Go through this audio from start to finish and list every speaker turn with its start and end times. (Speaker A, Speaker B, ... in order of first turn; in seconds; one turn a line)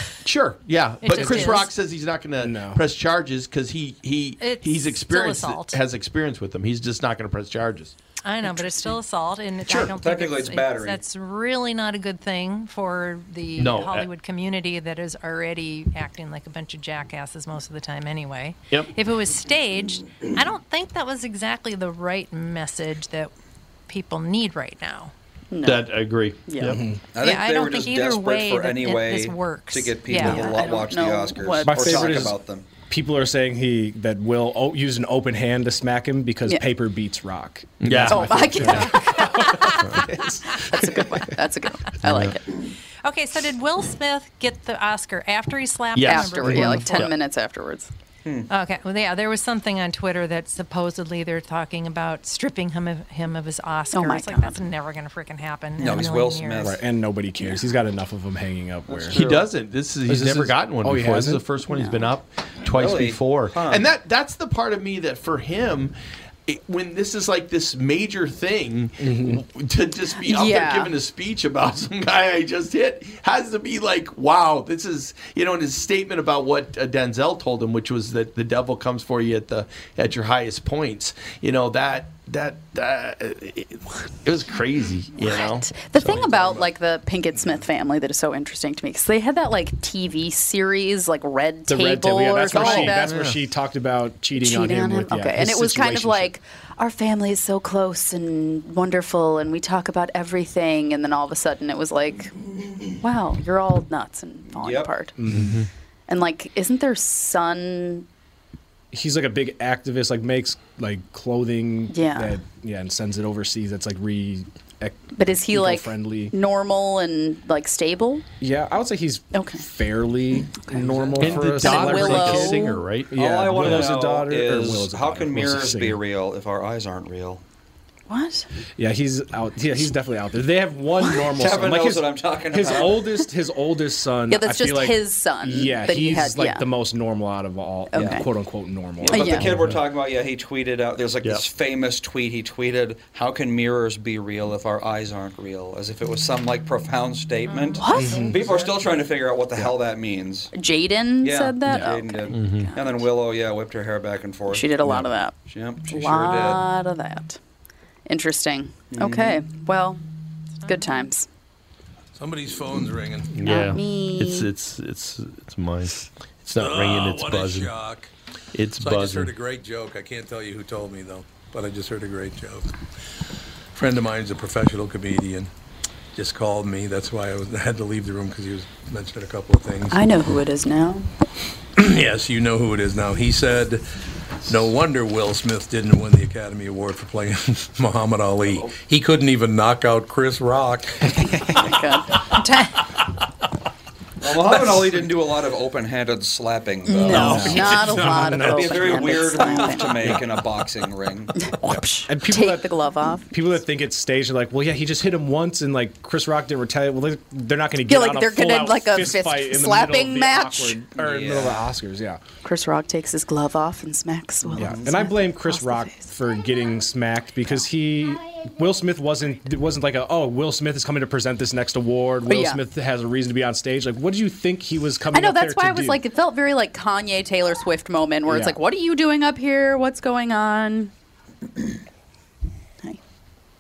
Speaker A: 0.2-7.9
Speaker B: 1.0-1.7
Speaker C: 2.4-2.8
Speaker B: 4.4-5.8
Speaker B: 8.2-23.3
Speaker D: 8.4-9.0
Speaker A: 9.7-9.9
Speaker E: 9.8-11.0
Speaker A: 13.6-14.1
Speaker B: 23.9-25.1
Speaker D: 25.5-25.9
Speaker A: 25.6-26.8
Speaker D: 26.5-26.8
Speaker C: 26.6-27.0
Speaker E: 27.1-32.7
Speaker B: 27.2-30.8
Speaker D: 30.2-32.1
Speaker C: 31.6-32.4
Speaker C: 32.9-39.2
Speaker A: 37.8-38.9
Speaker D: 38.1-40.0
Speaker B: 39.2-39.8
Speaker C: 40.1-41.2
Speaker D: 40.6-42.4
Speaker A: 42.0-42.4
Speaker B: 43.0-47.1
Speaker A: 46.0-47.1
Speaker D: 46.0-47.9
Speaker B: 48.5-56.7
Speaker D: 53.9-54.6
Speaker E: 55.8-56.8
Speaker C: 56.6-59.3
Speaker E: 58.9-59.5
Speaker A: 59.1-66.0
Speaker C: 60.1-61.4
Speaker D: 61.7-62.1
Speaker E: 62.7-63.9
Speaker A: 66.5-86.2
Speaker C: 69.0-69.4
Speaker D: 70.2-70.9
Speaker D: 85.2-93.2
Speaker F: 86.0-86.7
Speaker C: 91.7-96.3
Speaker A: 92.5-93.4
Speaker D: 94.4-102.3
Speaker D: 102.9-105.1
Speaker E: 104.5-104.9
Speaker C: 105.2-105.6
Speaker A: 105.3-105.7
Speaker D: 106.1-108.1
Speaker C: 108.9-116.3
Speaker D: 111.9-112.4
Speaker D: 115.2-118.2
Speaker C: 118.4-126.0
Speaker D: 119.3-119.7
Speaker D: 120.6-122.8
Speaker A: 121.1-123.9
Speaker E: 123.1-127.4
Speaker D: 128.1-128.5
Speaker C: 128.8-139.8
Speaker E: 131.3-133.2
Speaker D: 134.3-136.7
Speaker D: 137.9-138.3
Speaker E: 139.0-150.5
Speaker D: 139.1-139.5
Speaker B: 147.5-148.8
Speaker D: 147.8-148.2
Speaker C: 148.0-148.4
Speaker D: 150.5-153.1
Speaker E: 151.2-154.8
Speaker A: 152.3-152.7
Speaker D: 154.5-155.3
Speaker E: 155.5-156.7
Speaker D: 155.9-157.4
Speaker D: 158.1-160.0
Speaker E: 158.9-159.4
Speaker B: 160.6-161.0
Speaker D: 160.7-161.3
Speaker F: 162.2-163.4
Speaker A: 163.3-167.7
Speaker D: 163.4-164.5
Speaker F: 166.6-168.1
Speaker A: 168.5-169.3
Speaker F: 168.8-172.7
Speaker F: 173.7-175.5
Speaker F: 176.2-180.0
Speaker D: 179.9-181.1
Speaker F: 181.8-183.9
Speaker F: 184.4-191.3
Speaker D: 191.4-192.3
Speaker B: 192.4-192.7
Speaker E: 194.2-201.5
Speaker D: 196.9-200.2
Speaker C: 197.1-199.1
Speaker A: 197.1-198.2
Speaker F: 198.0-198.3
Speaker D: 201.4-203.3
Speaker C: 202.1-202.8
Speaker C: 203.3-212.2
Speaker D: 207.9-210.8
Speaker E: 211.0-211.6
Speaker D: 212.4-216.1
Speaker E: 214.4-214.9
Speaker C: 214.6-226.0
Speaker D: 222.3-222.6
Speaker D: 225.1-230.9
Speaker C: 228.3-228.6